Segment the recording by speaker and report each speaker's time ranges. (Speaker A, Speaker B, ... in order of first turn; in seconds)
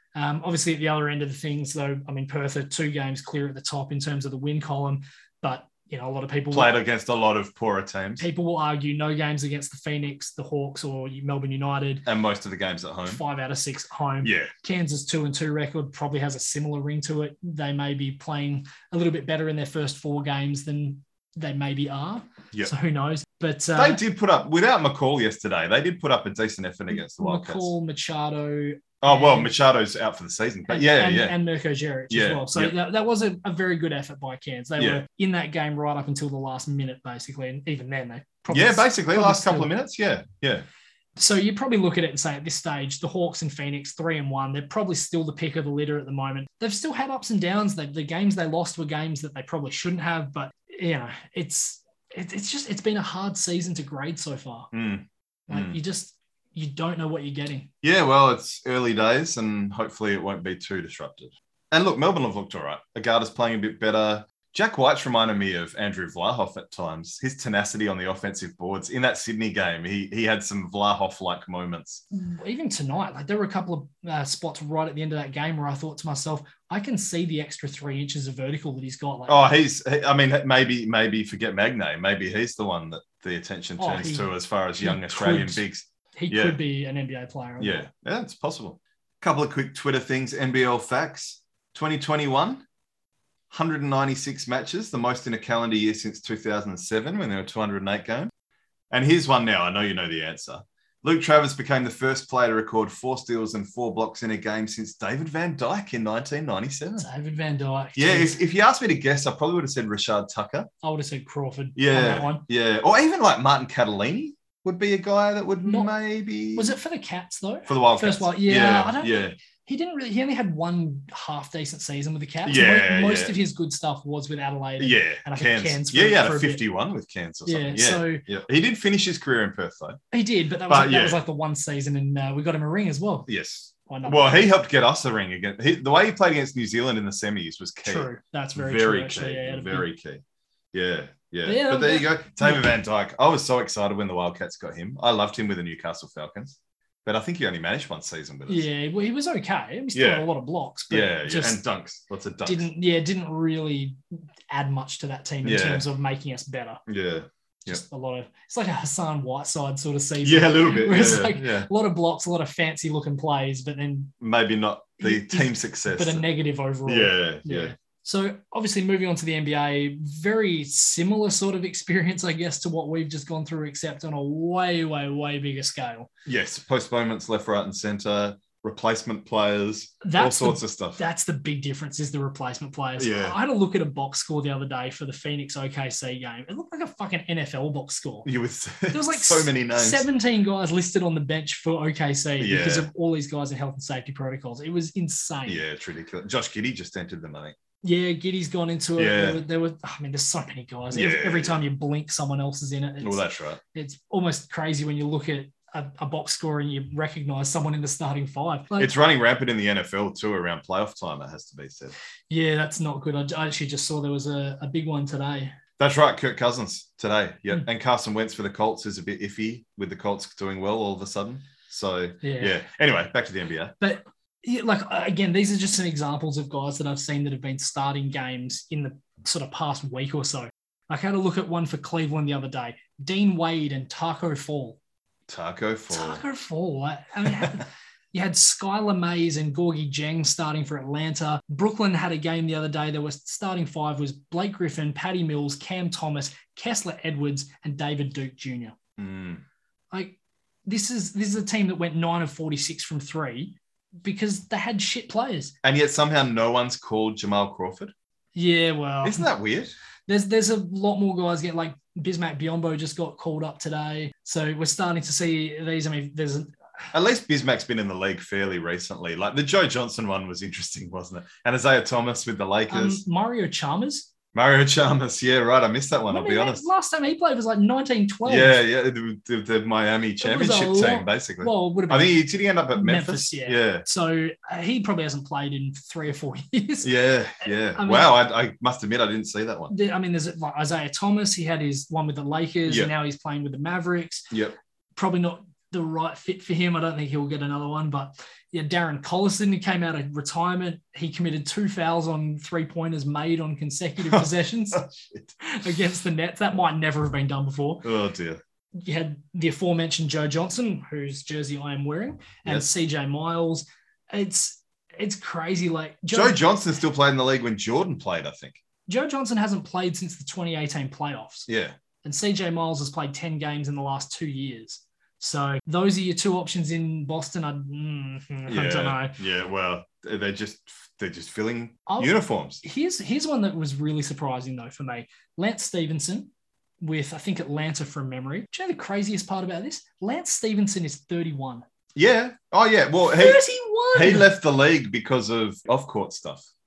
Speaker A: 0.1-6.8, 8.2-12.1, 13.1-24.0, 26.9-29.5, 30.7-39.7, 41.2-54.7, 55.5-57.7, 72.1-79.5, 83.8-85.6, 86.2-87.8, 107.0-108.4, 110.8-112.5, 115.6-115.9, 116.5-126.6, 127.5-128.2, 130.1-133.3, 133.9-134.5, 137.8-139.9, 141.4-142.7, 148.5-151.6, 152.4-154.0, 154.5-156.8, 157.7-164.1, 165.0-176.1, 180.0-188.3, 188.9-195.6, 197.8-208.9, 212.3-215.6, 222.2-222.6, 223.8-234.8, 235.9-248.8, 249.9-255.6, 258.4-259.3, 260.1-266.5, 272.7-274.1, 276.1-278.6, 280.2-282.2, 282.7-288.1, 289.7-294.3, 295.0-304.8, 305.4-307.9, 308.8-316.4, 318.9-321.5, 322.0-329.2, 331.9-336.3, 336.8-341.6, 343.1-344.3
Speaker B: 6.5-8.3, 12.1-13.2, 14.2-14.5, 23.8-27.7, 29.0-31.4, 32.1-32.8, 34.8-35.0, 38.5-40.6, 54.7-55.8, 57.8-72.0, 79.3-86.6, 87.6-92.7, 93.5-98.3, 98.9-107.1, 108.0-110.7, 111.8-116.8, 117.7-119.3, 122.5-123.3, 124.8-130.0, 130.7-131.2, 133.3-148.7, 149.9-150.3, 150.9-152.7, 155.4-155.8, 156.9-157.8, 160.2-161.7, 164.2-166.2, 166.9-167.7, 176.2-181.0, 183.0-183.4, 188.2-190.1, 192.4-192.9, 195.5-197.6, 199.0-199.4, 200.9-201.6, 203.0-203.6, 208.8-211.9, 215.8-223.8, 235.3-236.2, 249.0-249.4, 255.6-257.9, 259.0-259.7, 266.9-273.0, 274.3-276.7, 278.3-283.9, 286.8-289.7, 304.0-305.3, 307.8-308.4, 316.1-318.6, 321.5-321.8, 328.5-332.6, 342.0-343.4, 343.9-346.4